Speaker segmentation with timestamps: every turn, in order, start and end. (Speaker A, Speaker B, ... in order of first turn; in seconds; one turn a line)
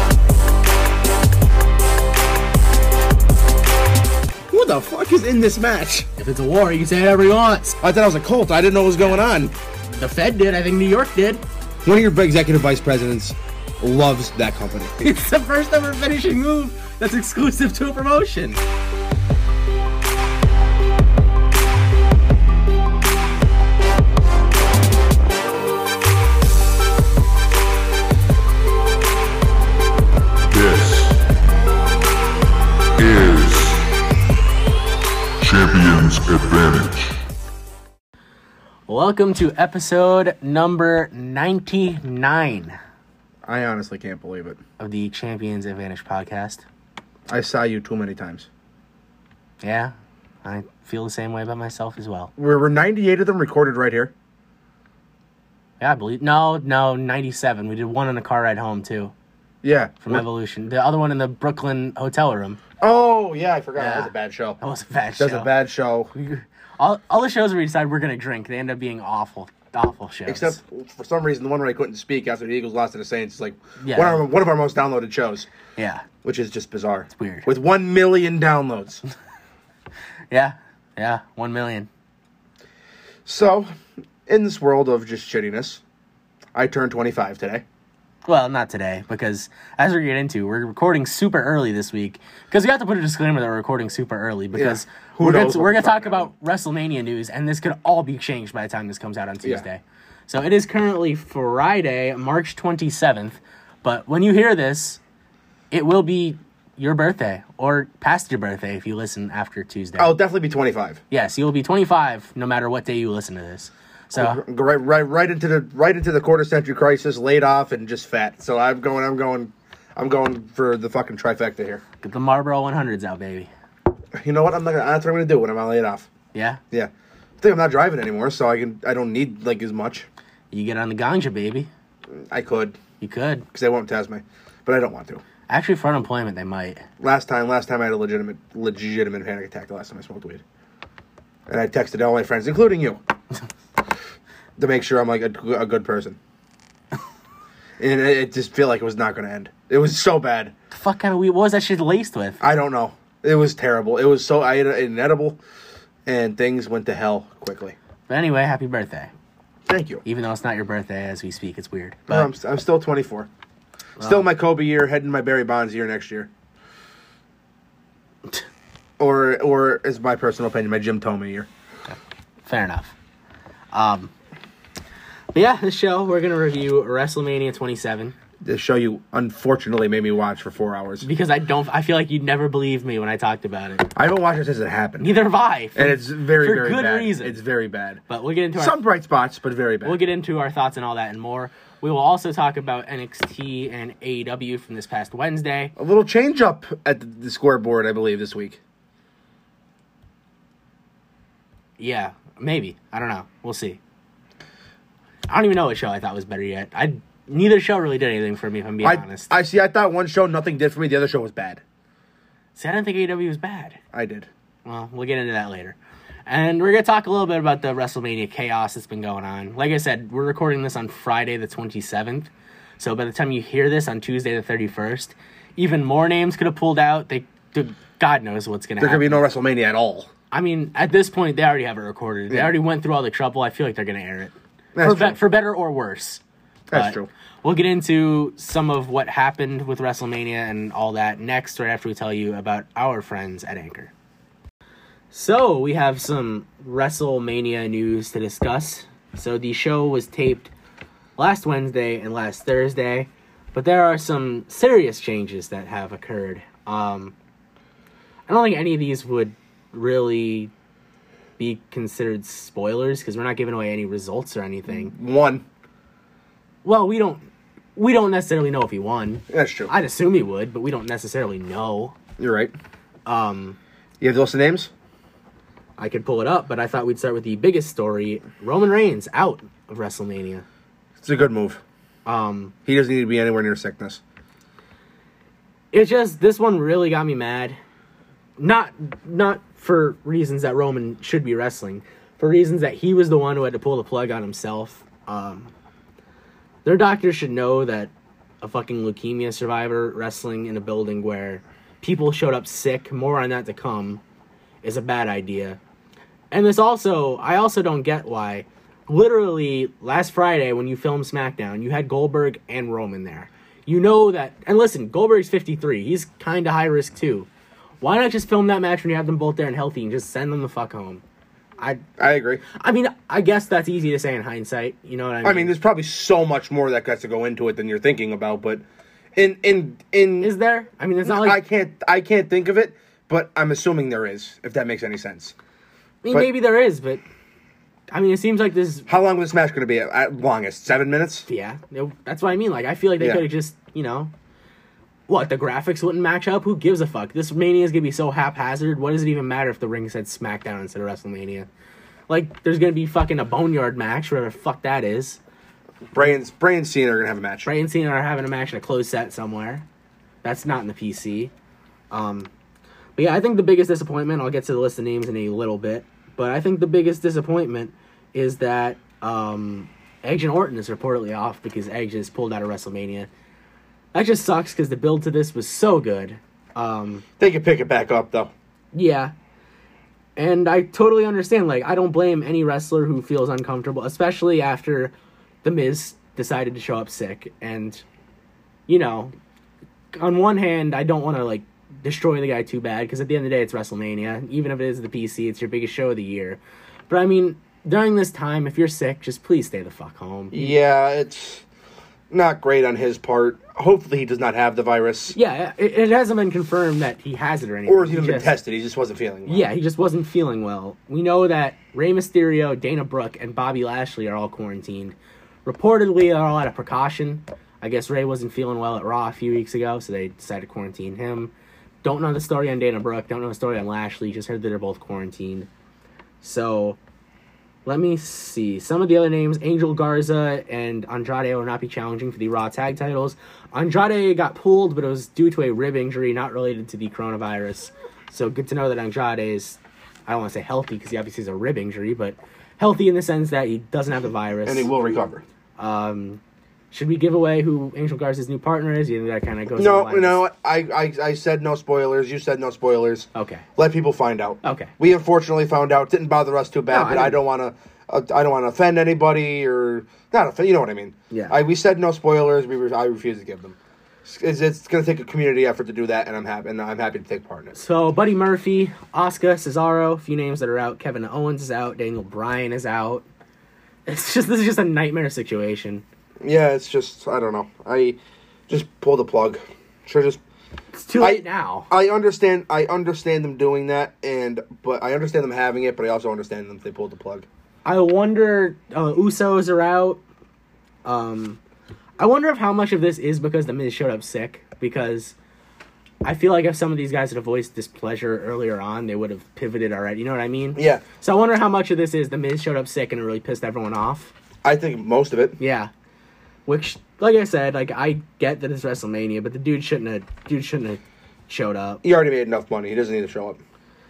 Speaker A: 4.5-6.1
Speaker B: 6.2-7.8
Speaker A: 7.8-9.5
Speaker B: 9.9-11.4
Speaker A: 11.8-14.9
Speaker B: 15.0-18.6
Speaker C: 30.5-31.1
Speaker C: 33.0-33.8
Speaker C: 35.4-37.1
Speaker B: 38.9-42.8
Speaker A: 43.5-44.6
Speaker B: 44.8-46.6
Speaker A: 47.3-48.5
Speaker B: 49.6-49.9
Speaker B: 50.4-52.3
Speaker A: 52.4-54.1
Speaker B: 55.8-59.1
Speaker A: 59.6-60.2
Speaker B: 60.0-62.6
Speaker A: 62.8-64.6
Speaker B: 63.8-65.5
Speaker A: 65.2-66.1
Speaker B: 66.1-70.6
Speaker A: 70.3-75.5
Speaker B: 73.8-74.2
Speaker B: 75.8-76.1
Speaker A: 76.2-79.0
Speaker B: 77.1-77.5
Speaker B: 80.3-81.9
Speaker A: 83.2-85.8
Speaker A: 86.5-87.6
Speaker B: 88.2-105.0
Speaker A: 94.5-96.3
Speaker B: 105.7-110.2
Speaker A: 110.0-111.0
Speaker B: 111.1-114.4
Speaker A: 114.1-121.8
Speaker B: 122.0-123.5
Speaker A: 124.1-126.1
Speaker B: 126.3-126.6
Speaker A: 126.7-130.1
Speaker B: 130.5-131.7
Speaker A: 132.1-132.8
Speaker B: 133.0-133.4
Speaker A: 133.5-135.2
Speaker B: 135.5-136.8
Speaker A: 137.0-140.4
Speaker A: 141.5-143.0
Speaker A: 144.6-146.2
Speaker A: 147.8-150.5
Speaker B: 150.7-152.4
Speaker A: 152.4-155.4
Speaker A: 156.1-157.8
Speaker B: 158.1-159.1
Speaker A: 159.7-160.0
Speaker B: 160.0-162.3
Speaker A: 162.1-163.3
Speaker B: 164.0-164.3
Speaker A: 164.0-166.3
Speaker A: 169.0-171.5
Speaker B: 171.9-172.9
Speaker B: 173.7-174.1
Speaker B: 175.3-178.2
Speaker A: 178.4-181.1
Speaker B: 181.0-183.9
Speaker A: 183.9-185.1
Speaker B: 185.0-187.3
Speaker A: 185.7-188.0
Speaker B: 188.1-188.8
Speaker A: 188.6-190.0
Speaker B: 189.8-195.7
Speaker A: 195.8-198.6
Speaker B: 201.8-203.8
Speaker B: 205.3-209.3
Speaker A: 208.8-211.6
Speaker B: 212.6-213.8
Speaker A: 213.9-214.3
Speaker B: 214.7-229.2
Speaker A: 228.8-230.1
Speaker B: 230.3-236.2
Speaker A: 232.3-232.5
Speaker A: 234.7-235.2
Speaker A: 236.7-237.1
Speaker B: 236.7-243.9
Speaker B: 245.1-250.5
Speaker B: 251.2-257.1
Speaker B: 258.3-260.5
Speaker B: 261.4-264.9
Speaker A: 264.7-265.4
Speaker B: 266.6-271.9
Speaker A: 269.3-269.7
Speaker A: 272.2-272.5
Speaker B: 273.1-273.6
Speaker A: 274.0-274.7
Speaker B: 275.8-280.4
Speaker A: 281.0-281.6
Speaker B: 282.1-282.5
Speaker A: 282.6-284.0
Speaker B: 285.7-287.6
Speaker B: 288.4-295.5
Speaker B: 296.6-304.0
Speaker B: 304.6-305.6
Speaker B: 306.3-317.3
Speaker B: 317.8-321.0
Speaker B: 321.6-321.8
Speaker A: 322.0-322.4
Speaker B: 322.5-325.5
Speaker A: 325.2-328.6
Speaker A: 329.1-330.3
Speaker B: 330.2-331.4
Speaker A: 331.0-335.3
Speaker B: 336.0-337.0
Speaker B: 337.9-338.9
Speaker A: 338.9-341.3
Speaker B: 341.3-344.1
Speaker A: 343.0-343.2
Speaker B: 345.1-351.5
Speaker B: 352.1-355.2
Speaker A: 355.9-357.5
Speaker B: 357.4-359.6
Speaker B: 360.2-361.3
Speaker B: 361.9-362.3
Speaker B: 362.9-373.1
Speaker B: 373.9-377.0
Speaker A: 377.2-378.3
Speaker B: 378.7-379.1
Speaker B: 380.2-387.8
Speaker B: 388.7-389.1
Speaker B: 389.9-400.6
Speaker A: 400.3-401.4
Speaker A: 402.1-405.1
Speaker B: 405.1-408.3
Speaker A: 407.6-409.5
Speaker B: 409.3-421.3
Speaker B: 421.8-425.5
Speaker B: 426.2-426.8
Speaker B: 427.6-444.7
Speaker A: 444.4-445.2
Speaker B: 445.6-446.2
Speaker B: 446.7-450.2
Speaker A: 449.6-467.5
Speaker B: 453.1-453.4
Speaker B: 454.4-454.7
Speaker B: 456.7-457.2
Speaker B: 461.1-461.4
Speaker B: 467.5-473.0
Speaker B: 473.9-475.8
Speaker A: 476.2-478.0
Speaker A: 478.5-480.2
Speaker B: 480.7-481.7
Speaker A: 481.0-487.3
Speaker B: 487.6-490.0
Speaker B: 490.8-491.4
Speaker B: 492.0-495.1
Speaker B: 496.0-504.1
Speaker A: 500.6-500.8
Speaker A: 504.4-505.4
Speaker B: 505.4-505.7
Speaker B: 506.5-511.8
Speaker A: 511.8-513.4